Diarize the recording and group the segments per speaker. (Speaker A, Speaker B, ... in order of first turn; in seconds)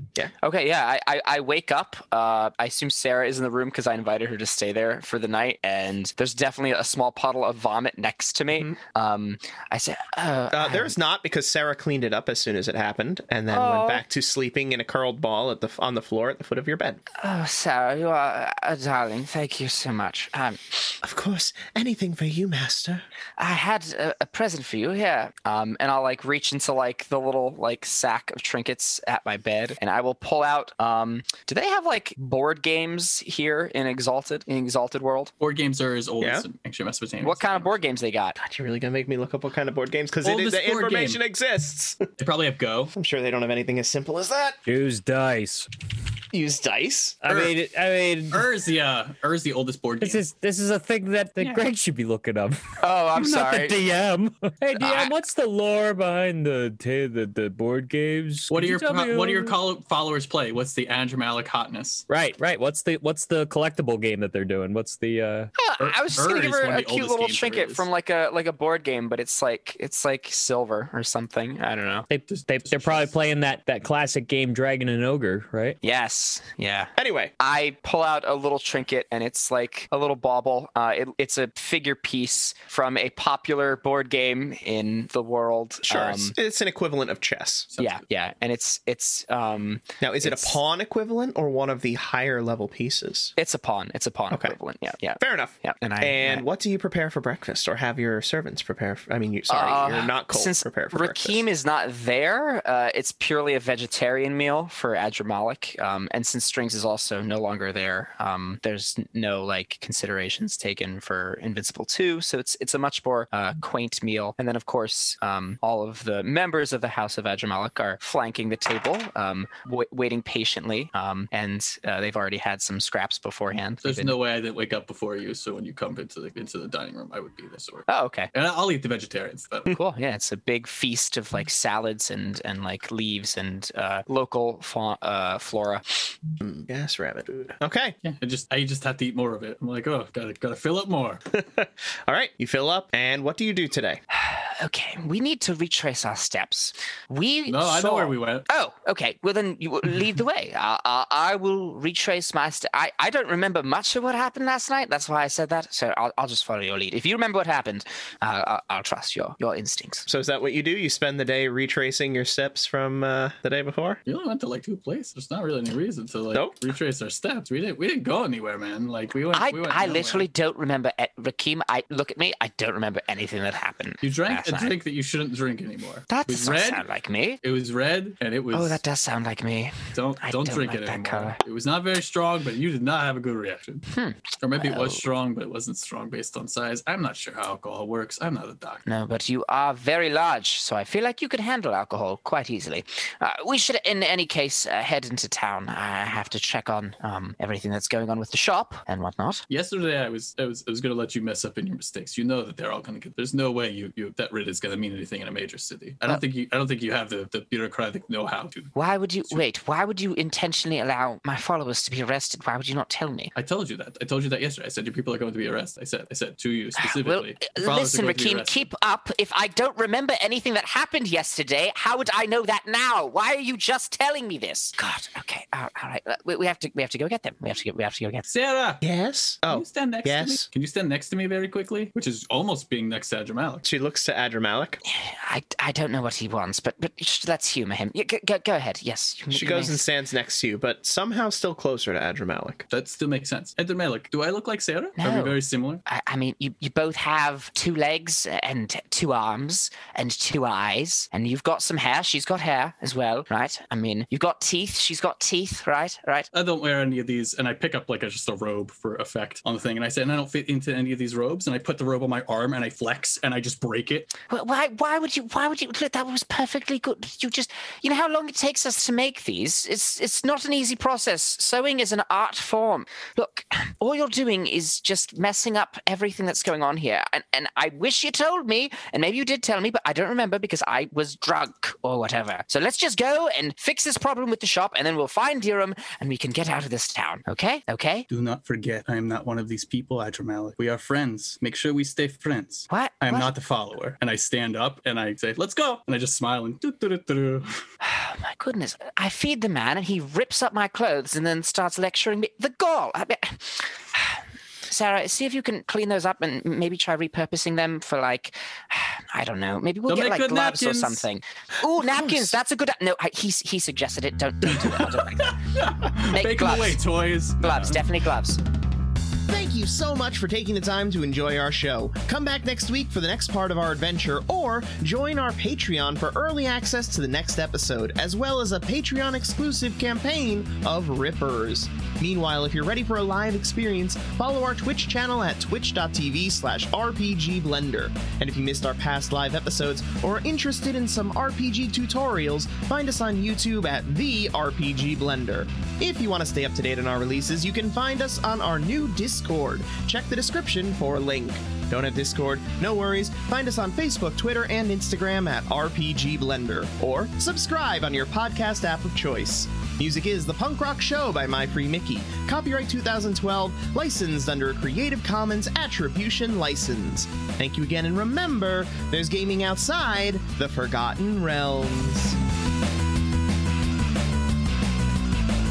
Speaker A: 0.4-10.9, 13.5-14.0, 17.2-21.0, 23.4-35.3, 37.2-38.4, 52.8-53.8, 54.8-55.1, 65.6-72.1, 75.8-86.3, 87.8-90.6, 93.4-96.5, 99.5-124.2, 127.9-128.3, 129.7-136.1, 144.1-160.1, 169.3-174.7, 176.1-177.4, 178.5-181.4, 183.9-185.0, 188.8-199.4, 208.7-213.3, 216.8-228.2, 234.8-239.8, 245.0-256.3, 264.3-288.1, 292.7-293.3, 297.8-315.4, 316.0-316.8, 317.4-318.4
Speaker B: 10.5-17.0, 21.0-23.0, 36.2-36.5, 38.4-42.1, 42.9-44.6, 46.3-47.2, 77.0-77.3, 85.9-87.7, 90.0-93.3, 94.3-94.6, 95.2-101.4, 136.4-137.9, 141.3-144.0, 160.1-164.0, 228.8-230.4, 233.6-234.8, 239.3-242.7, 319.3-372.2
Speaker C: 35.4-37.7, 40.2-41.2, 42.2-42.9, 47.3-47.5, 48.3-50.2, 58.5-62.0, 65.8-67.8, 72.3-73.1, 87.7-88.0, 123.8-129.8, 138.0-141.2, 147.5-148.5, 164.1-170.3, 174.0-176.8, 177.4-178.8, 179.9-183.9, 184.4-188.8, 199.5-208.7, 213.3-218.7, 228.2-228.8, 229.5-233.6, 242.7-245.8, 256.3-264.1, 288.1-297.5, 309.9-311.0, 314.5-317.8
Speaker D: 44.6-45.7, 47.2-48.5, 50.0-59.5, 62.1-65.5, 72.1-75.8